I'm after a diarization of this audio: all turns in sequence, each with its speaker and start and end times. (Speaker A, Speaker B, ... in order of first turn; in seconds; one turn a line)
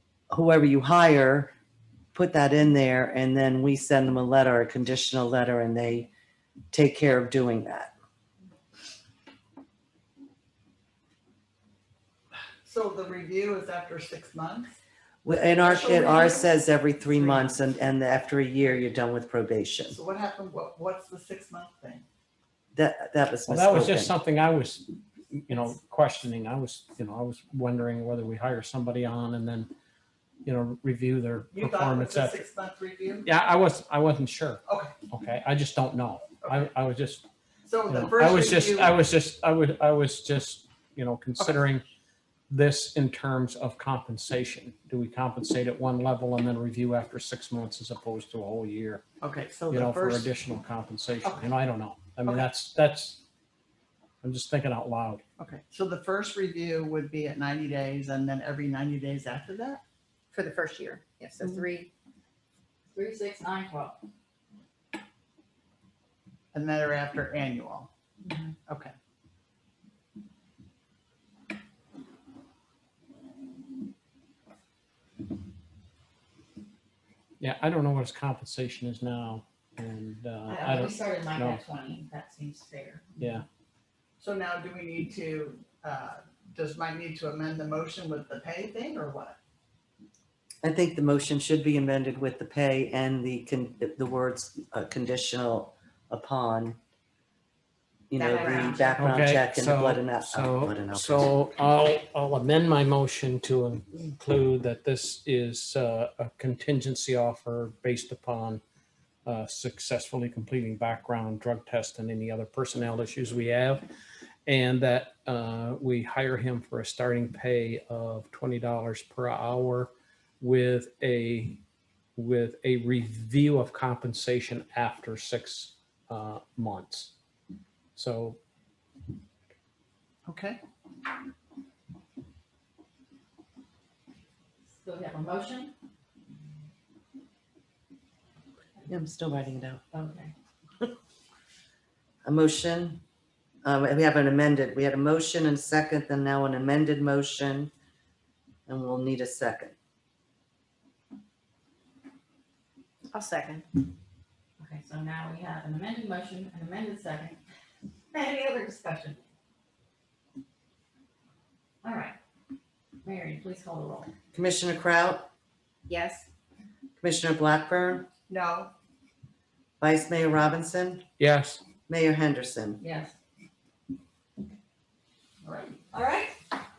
Speaker A: 0.3-1.5
Speaker A: 2.1-6.1
Speaker A: 6.7-7.9
Speaker B: 12.7-14.7
Speaker A: 15.2-20.0
Speaker B: 15.5-16.5
Speaker B: 17.1-17.6
Speaker B: 19.9-22.1
Speaker A: 22.7-24.1
Speaker C: 23.5-29.7
Speaker C: 30.4-32.4
Speaker B: 31.5-33.3
Speaker C: 33.2-37.3
Speaker B: 34.7-34.9
Speaker B: 36.4-36.7
Speaker B: 37.6-38.9
Speaker C: 37.9-41.9
Speaker C: 42.5-49.0
Speaker B: 49.2-50.3
Speaker C: 49.7-53.2
Speaker B: 52.2-52.5
Speaker C: 54.2-55.2
Speaker B: 55.4-59.8
Speaker D: 60.3-61.9
Speaker D: 62.9-64.0
Speaker B: 66.5-67.9
Speaker D: 68.3-68.5
Speaker B: 68.7-68.9
Speaker C: 77.4-81.6
Speaker D: 80.5-83.2
Speaker C: 83.2-83.5
Speaker B: 84.2-89.4
Speaker A: 90.6-96.8
Speaker A: 98.1-101.3
Speaker D: 98.2-99.0
Speaker C: 98.9-108.6
Speaker C: 109.2-113.8
Speaker C: 114.5-121.6
Speaker C: 122.2-127.1
Speaker C: 128.0-128.4
Speaker B: 130.3-130.6
Speaker D: 134.8-135.7
Speaker A: 138.9-139.8
Speaker D: 139.9-140.3
Speaker A: 142.2-143.0
Speaker A: 143.7-147.7
Speaker A: 148.7-149.8
Speaker D: 153.1-153.6
Speaker D: 154.6-157.4
Speaker D: 158.1-159.3
Speaker D: 161.8-162.2
Speaker D: 163.0-164.1
Speaker A: 164.3-165.3
Speaker D: 165.9-166.2
Speaker A: 167.0-168.1
Speaker B: 168.3-168.7
Speaker A: 169.8-171.1
Speaker C: 171.2-171.6
Speaker A: 171.9-172.8
Speaker D: 172.8-173.2
Speaker B: 175.4-175.8
Speaker D: 175.9-176.4